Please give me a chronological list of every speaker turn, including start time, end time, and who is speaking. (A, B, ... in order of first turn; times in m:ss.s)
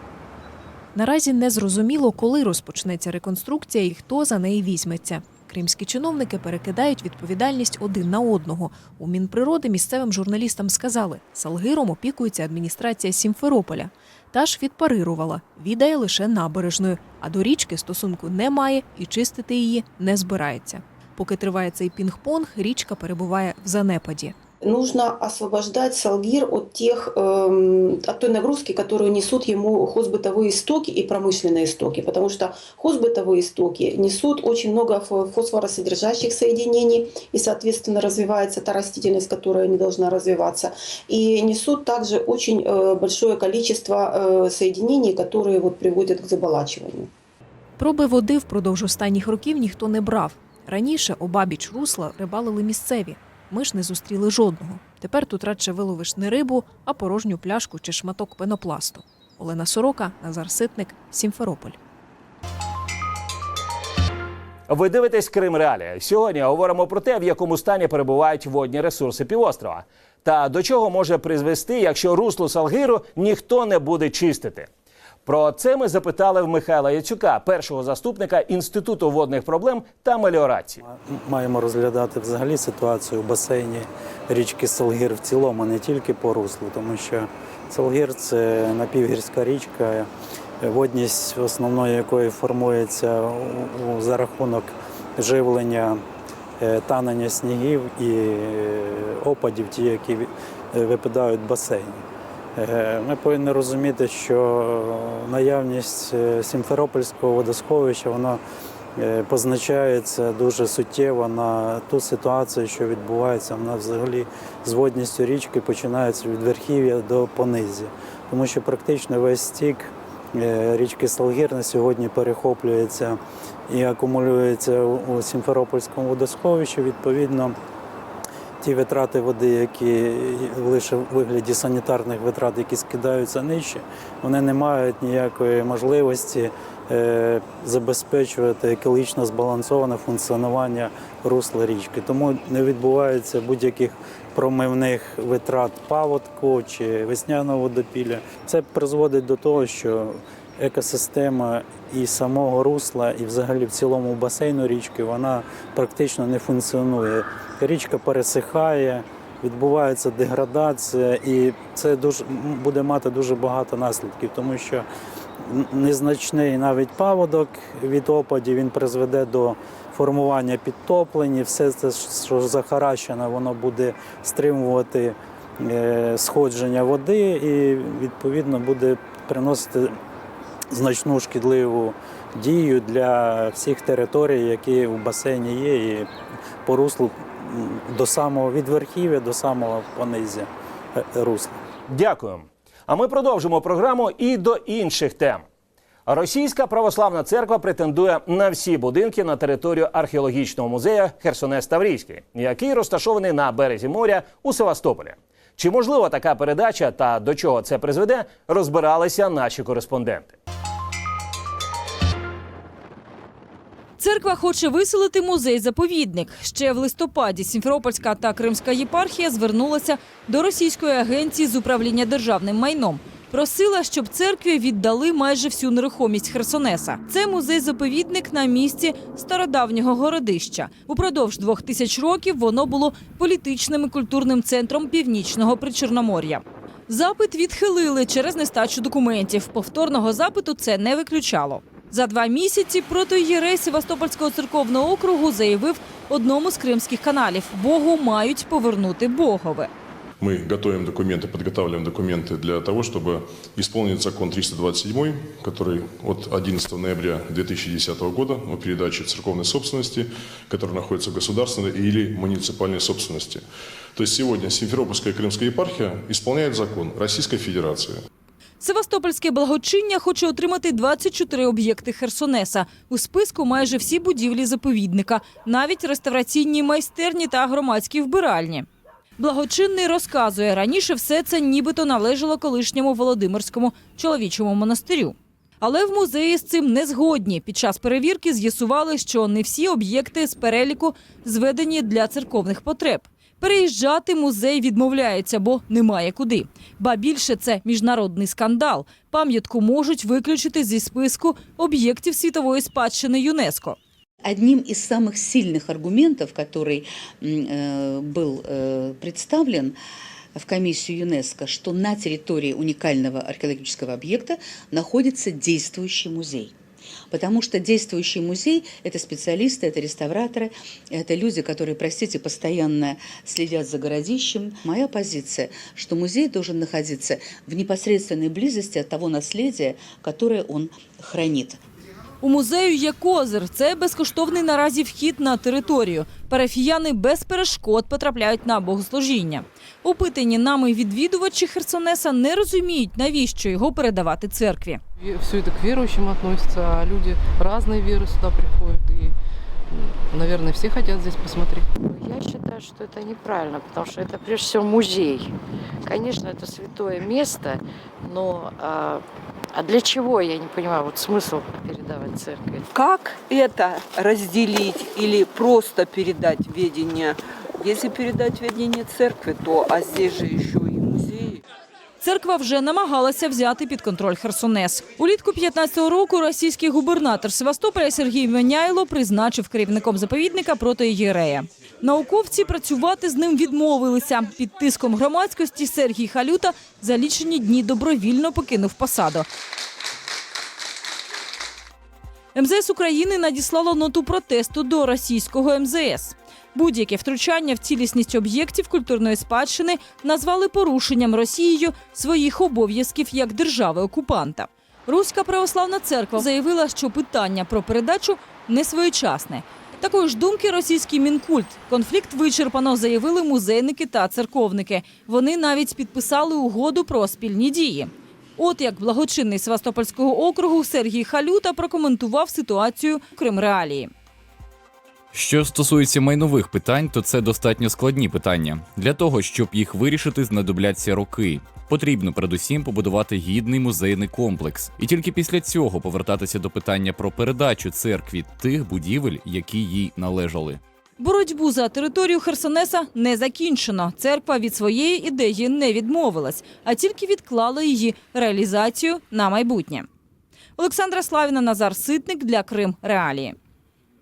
0:00.9-0:24.3 A
0:24.6-0:47.1 B
0:47.8-1:01.8 A
1:04.7-1:14.7 C
1:15.2-1:20.8 C
1:20.8-1:30.1 D
1:30.6-1:36.0 D
1:36.6-1:42.0 D
1:42.6-1:48.4 D
1:49.0-2:03.2 D
2:03.7-2:07.5 D
2:08.6-2:44.8 D
2:45.4-2:59.9 D
3:00.7-3:06.1 D
3:06.6-3:11.6 D
3:11.9-3:15.4 C
3:16.1-3:30.3 C
3:34.0-4:09.7 E
4:10.2-4:23.4 F
4:23.9-4:28.0 F
4:28.6-4:38.6 E
4:39.2-5:03.8 E
5:04.2-5:09.8 G
5:10.3-5:16.6 G
5:17.1-5:31.6 G
5:32.2-5:44.8 E
5:45.0-5:49.1 H
5:49.7-5:51.7 H
5:51.8-5:55.3 I
5:55.8-6:02.7 I
6:02.7-6:11.4 J
6:12.0-6:29.3 E
6:32.3-7:03.9 E
7:05.1-7:20.6 K
7:21.0-7:29.9 E
7:30.6-7:33.4 E